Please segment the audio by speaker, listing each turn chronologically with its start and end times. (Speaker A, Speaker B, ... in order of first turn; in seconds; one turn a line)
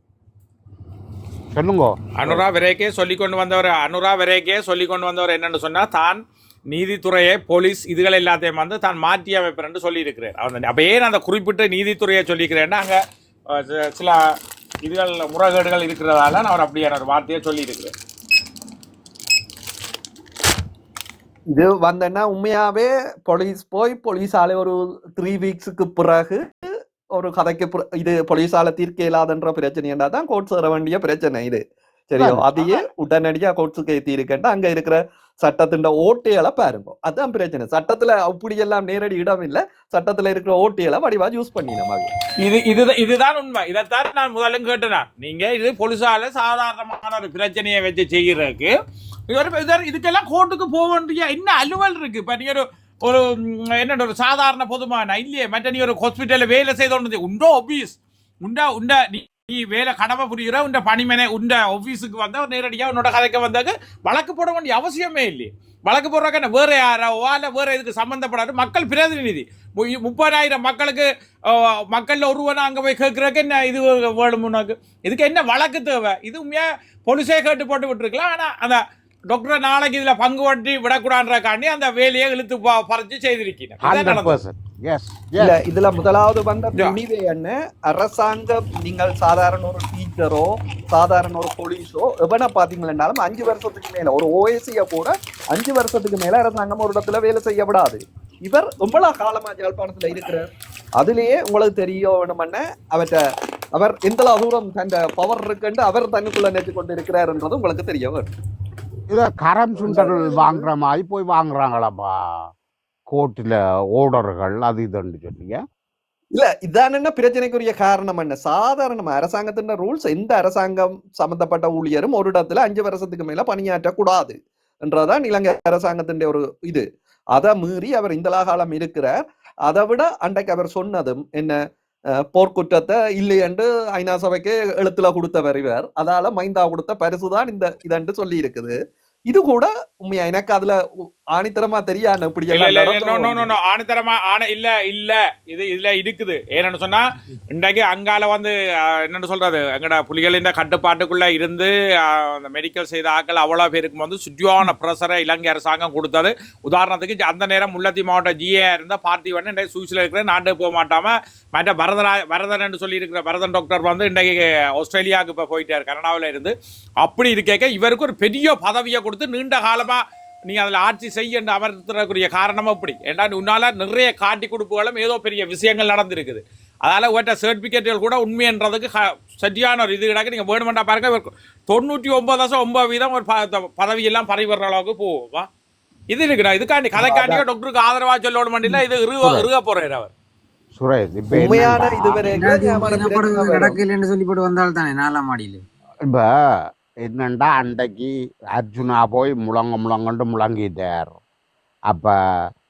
Speaker A: 1.5-2.4
Speaker B: 2.2-13.0
Speaker B: 13.5-14.2
Speaker B: 14.8-17.9
Speaker C: 21.5-26.6
Speaker C: 27.1-42.1
Speaker A: 32.2-32.8
Speaker B: 42.4-48.7
Speaker B: 49.3-84.4
Speaker A: 83.8-85.5
Speaker C: 85.4-100.5
Speaker C: 101.0-103.2
Speaker C: 103.8-108.3
Speaker A: 109.1-112.5
Speaker C: 109.9-110.2
Speaker A: 113.1-115.6
Speaker C: 116.3-129.2
Speaker C: 129.7-131.6
Speaker C: 132.3-138.7
Speaker C: 139.3-140.8
Speaker C: 141.3-143.5
Speaker B: 142.5-185.5
Speaker B: 186.1-190.1
Speaker C: 187.0-187.4
Speaker A: 189.2-189.5
Speaker A: 190.7-192.2
Speaker C: 191.3-193.8
Speaker D: 192.3-195.6
Speaker A: 197.0-201.2
Speaker A: 201.9-202.1